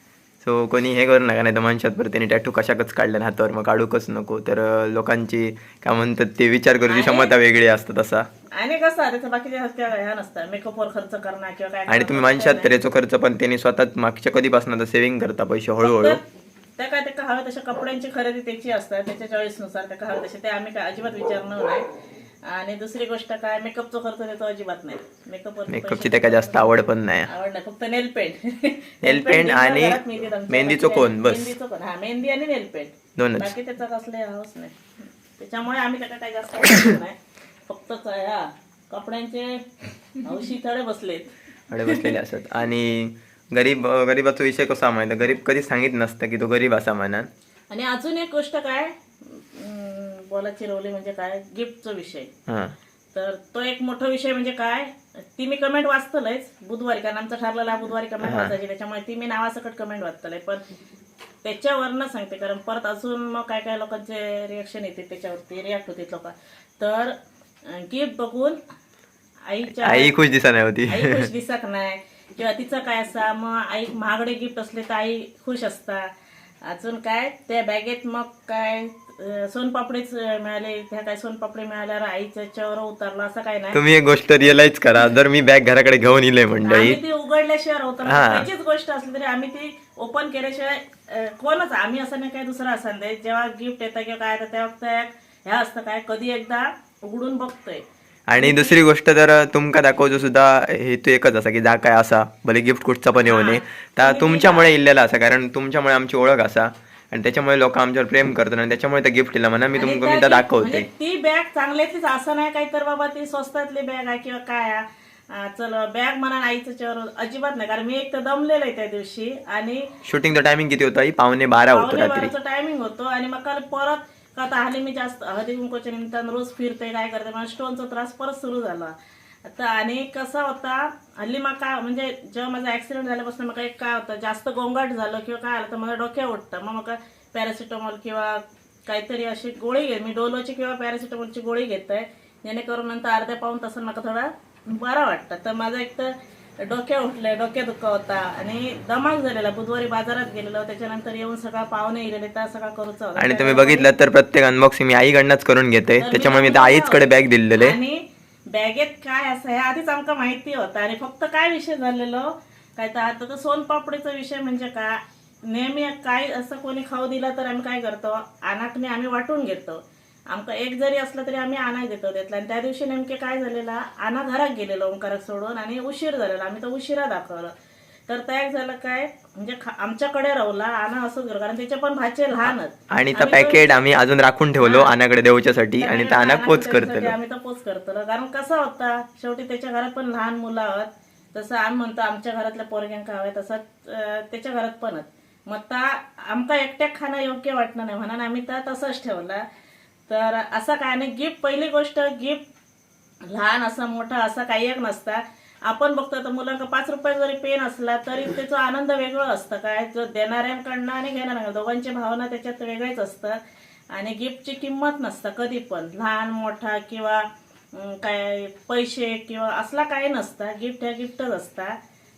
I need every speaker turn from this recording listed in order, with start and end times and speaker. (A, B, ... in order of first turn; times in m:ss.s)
0:00.4-0:08.3 A
0:06.9-0:07.4 B
0:08.6-0:12.8 B
0:11.9-0:16.2 A
0:15.8-0:16.2 B
0:16.8-0:21.8 B
0:22.5-0:37.2 B
0:25.7-0:27.3 A
0:29.0-0:31.5 A
0:33.2-0:33.5 A
0:37.7-0:39.6 B
0:40.2-0:41.3 B
0:41.7-0:47.3 A
0:41.9-0:42.2 B
0:47.7-0:52.3 B
0:52.5-0:52.7 A
0:53.2-1:00.6 B
0:58.2-0:58.6 A
1:01.4-1:07.1 B
1:07.7-1:08.6 B
1:09.5-1:10.1 B
1:09.8-1:11.3 A
1:10.9-1:16.0 B
1:16.7-1:23.8 B
1:23.7-1:27.0 A
1:26.6-1:37.8 B
1:28.0-1:28.5 A
1:38.3-1:50.9 A
1:38.4-1:38.8 B
1:43.2-1:44.7 B
1:49.8-1:59.9 B
2:00.0-2:02.3 A
2:01.7-2:08.9 B
2:09.5-2:33.9 B
2:33.2-2:37.8 A
2:36.0-2:38.0 B
2:38.5-2:57.5 B
2:58.1-3:03.7 B
3:02.9-3:07.1 A
3:04.6-3:04.9 B
3:05.8-3:19.4 B
3:20.1-3:22.4 B
3:23.3-3:33.4 B
3:33.9-3:41.8 B